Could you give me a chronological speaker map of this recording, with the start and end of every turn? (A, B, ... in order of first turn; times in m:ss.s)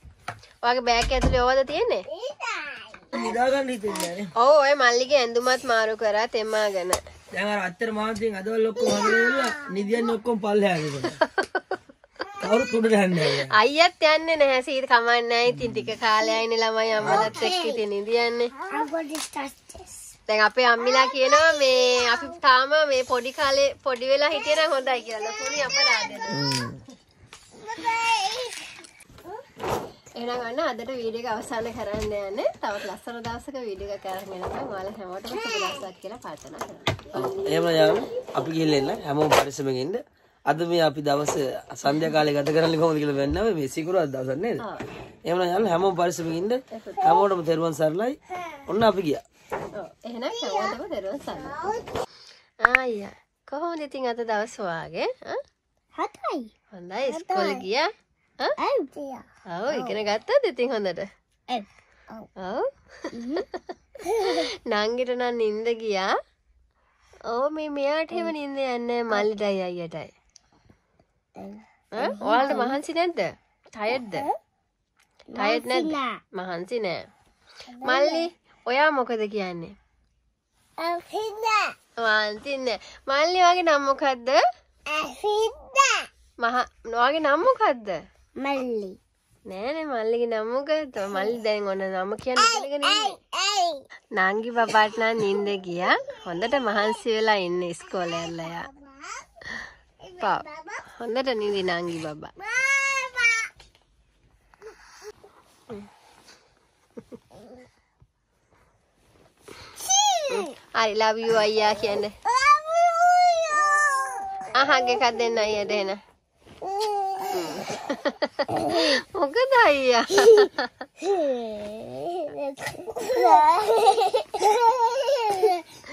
0:00.6-0:02.1 A
0:02.2-0:03.3 B
0:03.1-0:04.3 C
0:04.4-0:07.0 A
0:07.3-0:11.2 C
0:12.4-0:13.5 C
0:13.5-0:18.5 A
0:15.6-0:15.8 C
0:17.0-0:17.3 C
0:17.0-0:17.8 B
0:18.6-0:20.1 B
0:20.3-0:26.6 A
0:20.8-0:22.3 B
0:26.3-0:26.8 C
0:27.6-0:28.7 B
0:30.2-0:37.3 A
0:37.1-0:44.6 C
0:37.2-0:38.3 B
0:45.3-0:49.2 C
0:46.7-0:47.2 A
0:49.8-0:51.7 A
0:51.5-0:51.8 B
0:52.6-0:55.4 A
0:56.0-0:56.5 B
0:56.7-0:58.6 A
0:57.1-0:57.7 B
0:58.6-1:00.0 B
0:59.5-1:01.1 A
1:01.5-1:02.3 B
1:02.4-1:03.4 A
1:03.1-1:03.4 B
1:04.0-1:04.4 B
1:04.2-1:06.1 A
1:07.3-1:10.1 A
1:11.4-1:12.8 B
1:12.0-1:14.3 A
1:14.0-1:14.3 B
1:15.3-1:16.2 B
1:15.4-1:17.0 A
1:17.7-1:18.3 B
1:17.8-1:19.8 A
1:20.8-1:21.8 B
1:22.0-1:24.4 A
1:24.9-1:26.1 B
1:26.4-1:28.0 A
1:28.4-1:29.0 B
1:29.5-1:33.2 A
1:32.4-1:33.8 B
1:34.2-1:38.7 A
1:38.3-1:39.1 B
1:40.0-1:40.8 B
1:40.2-1:42.3 A
1:42.4-1:43.5 B
1:49.8-1:50.4 B
1:50.3-1:52.2 A
1:52.3-1:54.6 B
1:54.5-1:56.0 A
1:56.8-1:57.4 B
1:57.3-2:00.7 A
1:58.6-1:58.8 B
2:01.0-2:05.6 B